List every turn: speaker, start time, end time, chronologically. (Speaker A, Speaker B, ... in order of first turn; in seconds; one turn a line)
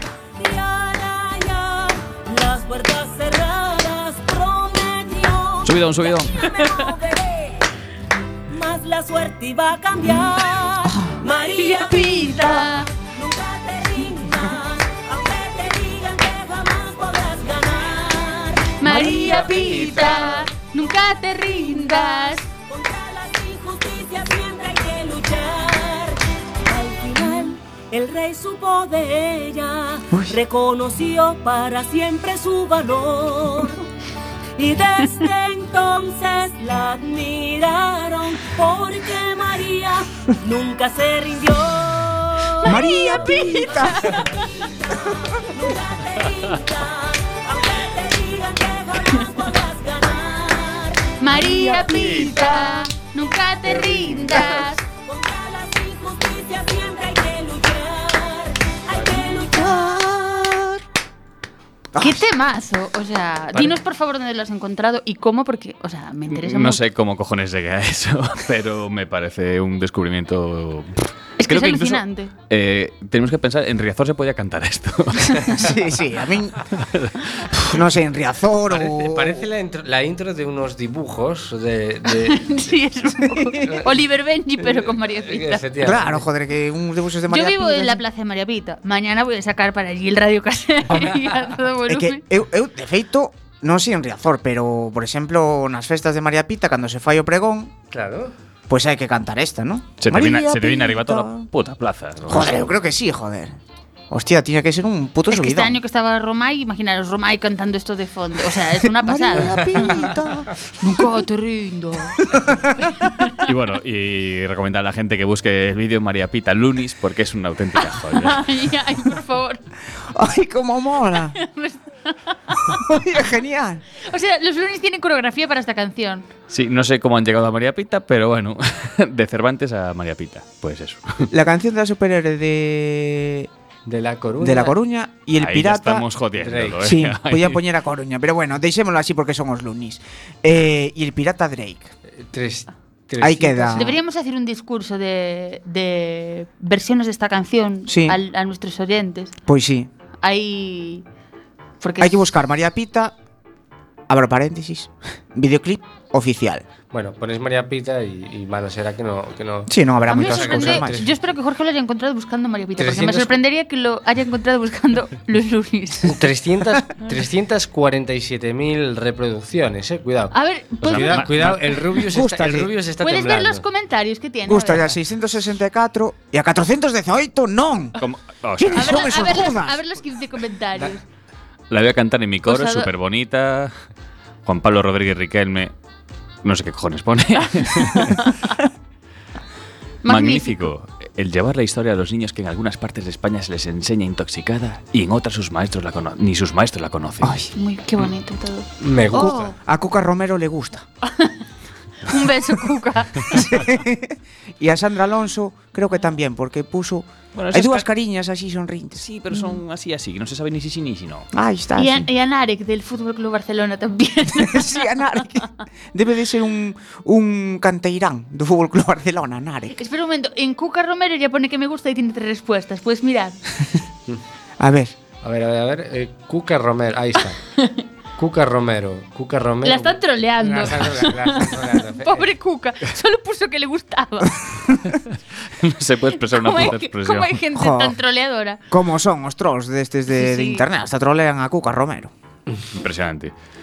Speaker A: 0.3-7.7
Speaker B: 5.6-6.4
Speaker A: 8.5-20.4
Speaker C: 11.6-12.9
Speaker C: 18.8-22.4
Speaker D: 18.9-19.7
Speaker A: 22.3-33.8
Speaker D: 30.1-30.4
Speaker A: 34.6-51.1
Speaker D: 42.6-44.3
Speaker C: 42.6-44.5
Speaker C: 51.2-54.8
Speaker D: 51.3-52.8
Speaker D: 53.9-54.6
Speaker A: 54.4-59.9
Speaker D: 59.5-60.8
Speaker D: 61.9-62.2
Speaker C: 62.0-66.8
Speaker B: 66.3-75.7
Speaker C: 71.4-72.3
Speaker D: 75.5-76.7
Speaker B: 76.7-77.6
Speaker D: 77.5-79.5
Speaker E: 78.7-82.5
Speaker C: 82.1-85.7
Speaker D: 83.2-83.6
Speaker E: 83.6-83.9
Speaker E: 84.6-86.2
Speaker D: 85.8-88.0
Speaker C: 87.3-92.2
Speaker D: 91.8-97.7
Speaker E: 97.9-98.3
Speaker D: 98.7-101.4
Speaker B: 100.0-102.7
Speaker D: 102.3-103.6
Speaker D: 104.1-105.8
Speaker C: 105.3-110.2
Speaker D: 108.8-110.5
Speaker C: 110.8-113.4
Speaker D: 112.2-112.7
Speaker B: 113.4-118.5
Speaker C: 117.8-119.6
Speaker D: 120.0-121.3
Speaker C: 121.3-123.0
Speaker D: 122.7-123.8
Speaker C: 124.0-126.3
Speaker B: 126.5-131.3
Speaker D: 131.3-133.5
Speaker E: 133.8-134.8
Speaker D: 134.4-136.1
Speaker B: 135.3-137.6
Speaker E: 136.4-136.8
Speaker D: 136.8-141.9
Speaker E: 142.2-143.9
Speaker D: 143.2-144.0
Speaker C: 143.7-149.3
Speaker D: 147.9-148.2
Speaker D: 149.4-149.9
Speaker C: 150.2-151.0
Speaker C: 151.8-152.2
Speaker D: 152.0-153.1
Speaker D: 154.1-156.6
Speaker E: 156.9-161.1
Speaker D: 159.7-161.0
Speaker C: 160.1-166.2
Speaker E: 162.8-163.4
Speaker E: 166.0-173.6
Speaker C: 170.3-171.3
Speaker B: 170.8-171.9
Speaker D: 172.0-172.7
Speaker C: 173.0-174.9
Speaker D: 174.4-178.0
Speaker B: 178.0-179.3
Speaker D: 178.6-179.8
Speaker C: 178.7-181.0
Speaker B: 181.7-183.7
Speaker C: 182.4-182.9
Speaker B: 184.4-185.7
Speaker B: 186.4-188.3
Speaker C: 187.8-188.5
Speaker C: 190.0-190.7
Speaker B: 190.1-197.4
Speaker D: 197.2-197.5
Speaker C: 197.5-199.4
Speaker E: 198.8-199.5
Speaker D: 199.1-200.8
Speaker C: 201.0-201.4
Speaker C: 202.0-203.6
Speaker D: 203.3-209.1
Speaker B: 207.3-207.9
Speaker B: 209.0-211.3
Speaker D: 211.3-212.1
Speaker C: 211.8-215.4
Speaker D: 214.3-219.8
Speaker C: 219.7-223.4
Speaker D: 224.6-224.9
Speaker E: 225.2-227.4
Speaker C: 227.6-227.8
Speaker E: 228.2-232.3
Speaker C: 229.6-234.8
Speaker B: 235.5-237.4
Speaker C: 236.1-238.6
Speaker D: 237.5-238.0
Speaker D: 238.7-242.1
Speaker C: 240.1-240.7
Speaker B: 242.7-243.3